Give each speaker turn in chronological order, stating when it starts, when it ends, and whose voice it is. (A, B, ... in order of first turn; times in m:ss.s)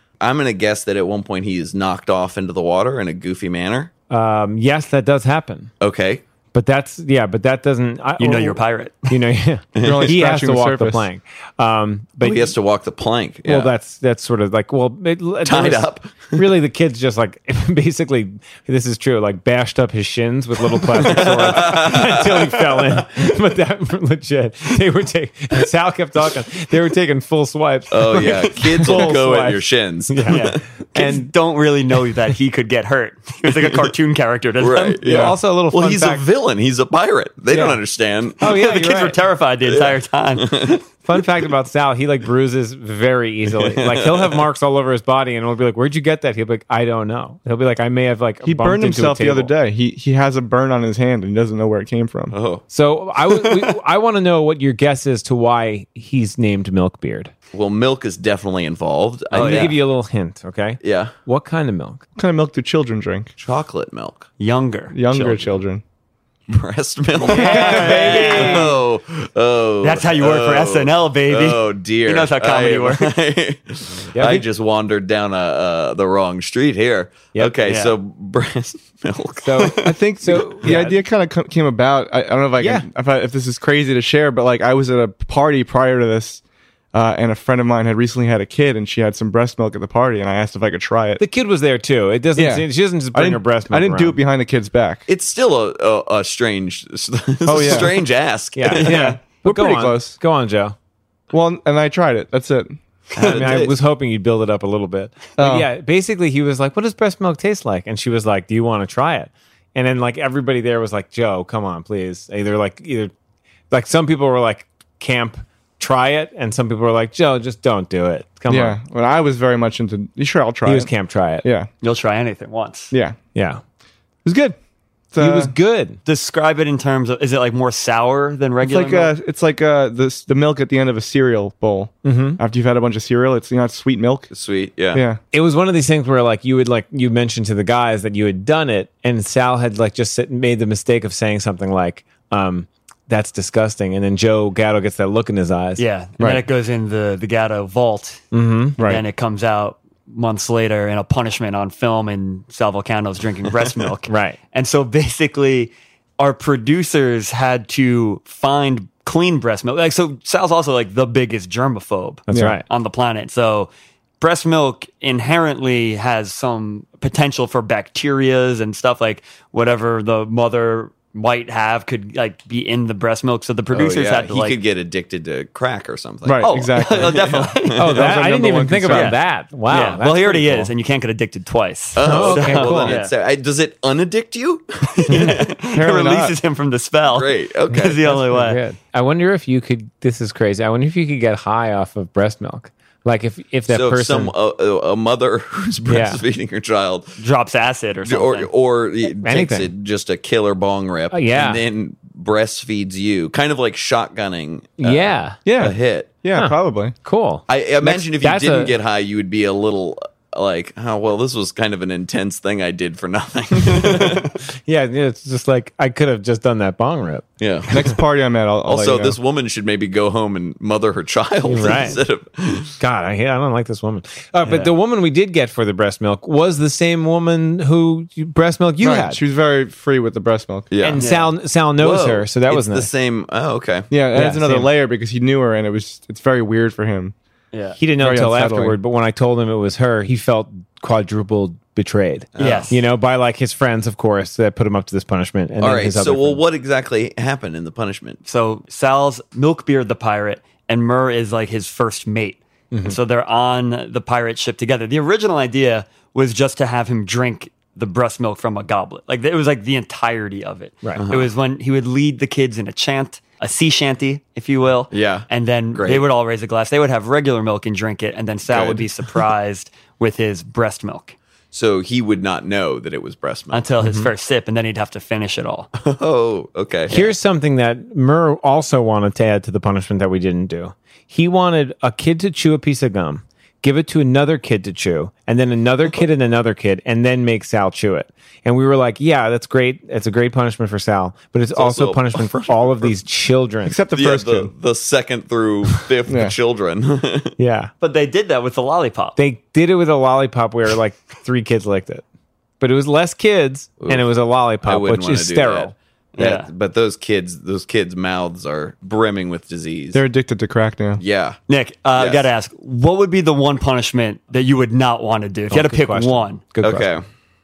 0:00.2-0:03.9 A
0:04.1-0:05.7 B
0:05.8-0:06.2 A
0:06.5-0:12.5 B
0:08.2-0:09.1 C
0:09.8-0:10.1 A
0:09.8-0:11.0 D
0:12.2-0:13.7 A
0:13.4-0:31.3 B
0:15.4-0:16.5 A
0:20.9-0:23.0 A
0:27.9-0:30.6 A
0:30.3-0:35.0 C
0:33.5-0:33.7 A
0:34.6-0:38.4 A
0:35.0-0:36.2 B
0:35.0-0:35.3 D
0:37.5-0:37.8 B
0:38.4-0:39.2 B
0:38.4-0:40.8 C
0:39.6-0:41.2 A
0:41.0-0:49.5 B
0:43.6-0:44.4 A
0:48.4-0:52.3 D
0:52.3-0:52.6 A
0:52.7-0:57.3 B
0:53.3-0:53.7 A
0:57.5-0:59.8 A
0:59.3-1:02.0 B
0:59.4-0:59.6 C
1:00.8-1:01.1 A
1:02.2-1:03.3 D
1:03.4-1:04.2 A
1:04.4-1:05.5 C
1:04.9-1:05.8 D
1:06.5-1:20.0 A
1:07.3-1:08.8 C
1:07.3-1:08.7 B
1:09.8-1:13.1 C
1:14.1-1:14.4 B
1:17.6-1:17.9 C
1:19.4-1:21.0 B
1:19.8-1:26.4 D
1:22.6-1:22.9 B
1:26.9-1:31.2 D
1:31.2-1:34.2 B
1:32.4-1:35.0 D
1:35.1-1:39.1 A
1:37.4-1:38.0 D
1:37.6-1:37.9 B
1:38.5-1:40.7 B
1:38.8-1:40.2 D
1:41.3-1:42.8 D
1:43.1-1:43.8 A
1:43.2-1:53.1 B
1:45.4-1:45.7 D
1:53.7-1:58.8 B
1:58.5-2:01.7 D
2:00.6-2:01.5 B
2:01.8-2:02.9 C
2:02.9-2:03.2 D
2:03.3-2:03.6 B
2:04.2-2:04.6 D
2:05.1-2:05.5 D
2:05.2-2:06.0 B
2:06.0-2:09.1 C
2:08.6-2:14.3 D
2:12.0-2:12.4 B
2:14.3-2:15.0 A
2:14.9-2:15.2 D
2:15.3-2:25.8 B
2:25.8-2:54.6 C
2:28.3-2:28.8 B
2:28.8-2:29.0 D
2:34.1-2:34.4 B
2:42.3-2:42.6 B
2:42.3-2:42.6 D
2:53.7-2:57.9 A
2:56.2-2:59.2 D
2:56.4-2:57.8 C
2:57.8-3:00.7 B
2:58.9-2:59.2 C
2:59.7-3:03.1 C
3:01.9-3:05.5 A
3:02.0-3:03.0 B
3:05.0-3:08.6 C
3:05.7-3:06.3 D
3:07.1-3:08.2 A
3:08.0-3:14.3 B
3:13.7-3:17.1 A
3:15.9-3:16.2 B
3:17.2-3:18.5 C
3:18.0-3:26.2 A
3:19.2-3:19.7 B
3:21.1-3:21.6 B
3:24.8-3:25.4 B
3:25.4-3:27.0 D
3:26.3-3:28.7 B
3:27.5-3:34.3 A
3:34.6-3:37.2 B
3:37.4-3:37.7 A
3:37.7-3:39.2 D
3:38.6-3:42.8 A
3:41.4-3:42.0 B
3:42.8-3:49.2 B
3:44.4-3:44.7 C
3:48.8-3:50.7 D
3:50.7-3:51.0 A
3:50.8-3:52.9 B
3:51.0-3:51.3 C
3:51.8-3:53.9 A
3:53.9-3:57.1 D
3:54.1-3:54.7 B
3:57.5-3:57.8 C
3:57.8-4:06.4 B
3:58.0-3:58.8 D
4:02.3-4:02.7 A
4:02.4-4:02.8 C
4:05.6-4:08.2 A
4:08.2-4:31.2 C
4:21.0-4:21.3 A
4:24.9-4:26.0 A
4:28.5-4:28.9 A
4:31.5-4:33.6 A
4:33.5-4:35.7 C
4:33.8-4:34.1 B
4:35.8-4:37.0 A
4:36.9-4:53.8 B
4:51.5-4:52.6 A
4:53.6-4:54.5 D
4:53.9-4:57.3 A
4:56.1-4:56.3 D
4:57.4-4:57.7 B
4:57.8-4:59.2 C
4:59.2-5:02.0 B
5:02.6-5:05.7 B
5:03.8-5:10.0 A
5:06.2-5:06.5 C
5:09.9-5:11.0 D
5:11.0-5:11.4 A
5:11.5-5:16.4 C
5:12.0-5:12.2 A
5:15.5-5:16.9 B
5:16.6-5:17.0 A